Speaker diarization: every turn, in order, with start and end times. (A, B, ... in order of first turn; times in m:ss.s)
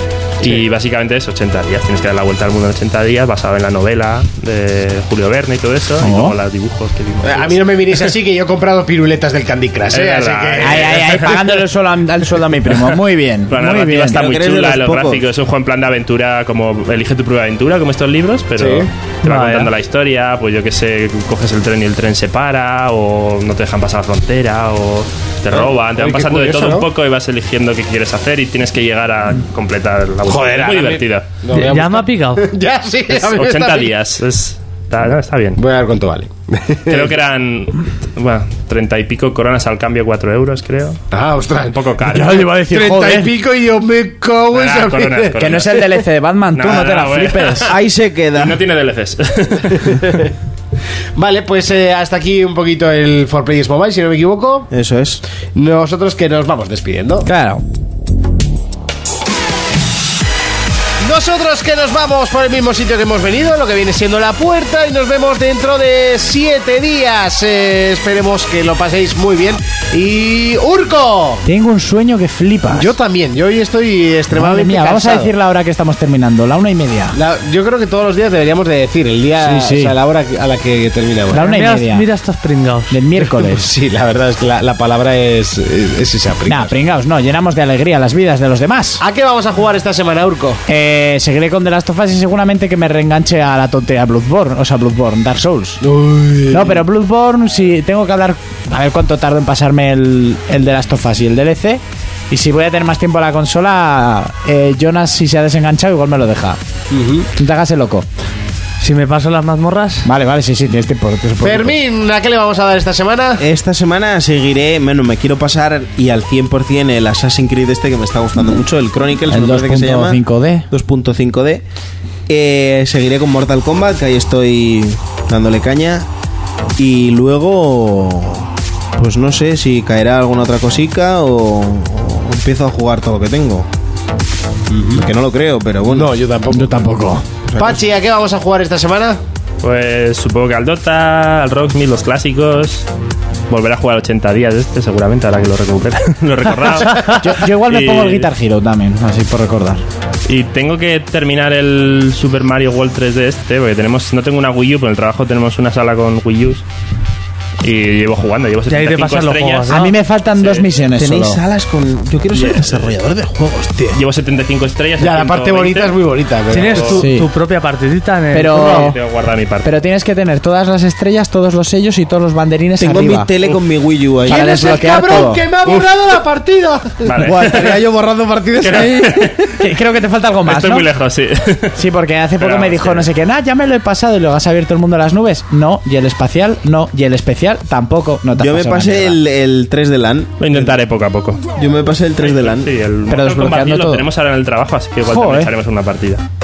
0:00.4-0:08.0 A
0:06.0-0:06.4 B
0:07.2-0:11.4 C
0:09.9-0:11.5 A
0:10.6-0:14.3 B
0:12.7-0:31.2 A
0:14.1-0:15.2 D
0:18.6-0:18.9 C
0:19.2-0:19.7 E
0:25.5-0:26.9 C
0:30.2-0:33.9 C
0:31.5-0:32.5 E
0:33.1-0:35.6 A
0:35.6-0:37.1 C
0:36.9-0:41.0 A
0:41.1-0:41.8 C
0:41.7-0:42.5 A
0:42.1-0:43.3 B
0:42.5-0:45.9 C
0:44.5-0:45.9 A
0:45.4-0:47.7 B
0:46.5-0:47.8 A
0:47.7-0:48.6 D
0:48.3-0:50.2 A
0:51.2-0:54.7 C
0:54.7-0:55.2 D
0:55.5-0:57.3 C
0:57.2-0:57.6 B
1:01.0-1:11.4 C
1:11.4-1:12.9 B
1:12.7-1:15.3 C
1:14.3-1:17.2 B
1:17.1-1:21.5 C
1:19.4-1:19.9 B
1:21.3-1:22.0 B
1:21.3-1:23.0 E
1:22.9-1:23.7 B
1:23.2-1:26.7 C
1:26.5-1:29.0 B
1:29.0-1:30.6 C
1:30.7-1:35.8 B
1:35.8-1:36.8 C
1:36.5-1:46.6 B
1:46.9-1:47.3 C
1:47.3-1:48.1 B
1:48.8-1:50.1 E
1:50.0-1:51.8 B
1:51.4-1:53.4 C
1:53.4-2:01.6 D
1:59.3-2:00.7 B
2:02.3-2:06.1 D
2:06.8-2:13.7 D
2:14.7-2:15.1 C
2:15.0-2:16.1 D
2:15.8-2:16.9 C
2:16.5-2:17.2 B
2:17.5-2:17.8 D
2:17.6-2:19.2 C
2:19.6-2:22.9 A
2:23.5-2:28.3 A
2:26.9-2:29.8 B
2:30.3-2:36.6 A
2:37.6-2:39.8 A
2:38.7-2:39.9 E
2:39.7-2:41.4 B
2:40.4-2:40.7 A
2:41.0-2:44.0 D
2:42.3-2:42.6 B
2:43.9-2:46.0 A
2:45.0-2:47.0 C
2:46.5-2:48.9 E
2:46.6-2:47.0 A
2:47.0-2:47.3 B
2:48.3-2:49.0 B
2:48.4-2:49.7 A
2:49.6-2:53.3 B
2:52.8-2:54.7 D
2:54.2-2:55.4 B
2:54.3-2:57.1 C
2:57.0-2:57.8 A
2:57.2-2:59.5 D
2:58.6-2:59.5 A
2:59.6-3:00.9 B
3:00.4-3:01.8 A
3:01.7-3:09.2 B
3:02.4-3:03.1 A
3:08.4-3:10.7 D
3:10.4-3:11.4 A
3:11.6-3:12.7 D
3:12.2-3:16.2 A
3:13.1-3:14.1 B
3:15.0-3:15.5 B